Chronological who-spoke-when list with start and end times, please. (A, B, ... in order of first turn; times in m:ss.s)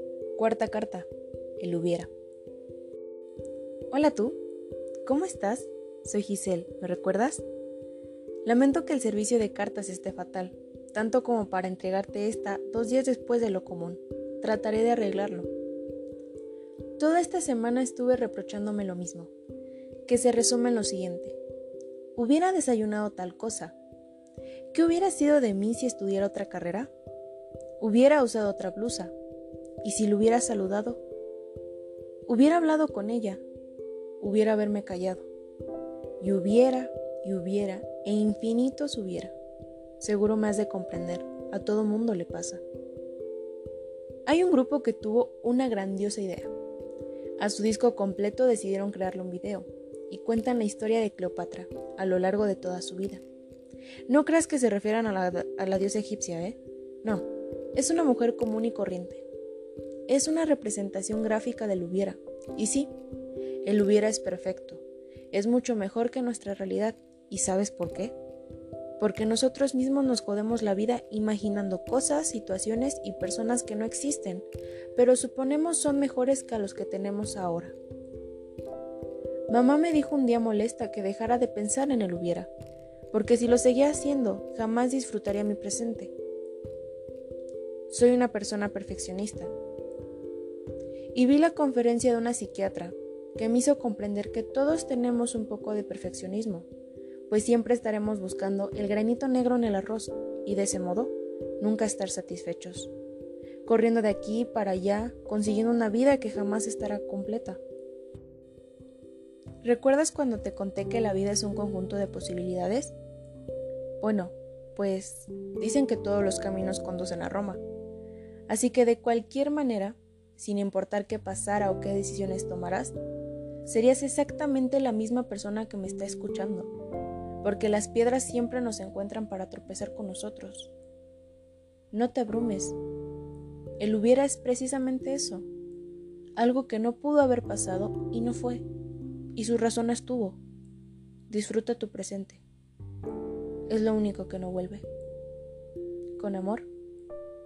0:00.4-0:01.1 A
0:01.6-0:02.1 A
0:03.9-0:04.4 A
0:05.0-0:07.4 A
0:08.4-0:15.5 A
0:17.0-0:19.3 A
0:20.1-0:21.4 A
0:22.2-0:23.7 A
0:24.7-0:26.9 A
0:27.8-0:29.1 A
0:29.8-0:31.0 A
0:32.3-0:33.4 A
0:34.2-0:35.3 A
0:36.2-0:39.3 A
0:40.0-0:42.6 A
0:44.3-0:46.5 A
0:47.4-0:53.2 A
0:54.1-0:59.2 A
1:00.1-1:02.9 A
1:03.6-1:08.1 A
1:09.0-1:17.8 A
1:19.5-1:22.5 A
1:23.1-1:26.1 A
1:27.9-1:29.5 A
1:31.1-1:36.7 A
1:37.3-1:42.9 A
1:43.6-1:47.6 A
1:49.6-1:52.9 A
1:54.0-1:57.6 A
1:58.5-2:03.0 A
2:03.6-2:06.7 A
2:07.4-2:10.7 A
2:11.9-2:12.8 A
2:13.8-2:15.5 A
2:16.4-2:18.6 A
2:19.4-2:20.4 A
2:21.3-2:22.4 A
2:23.7-2:24.8 A
2:26.2-2:26.7 A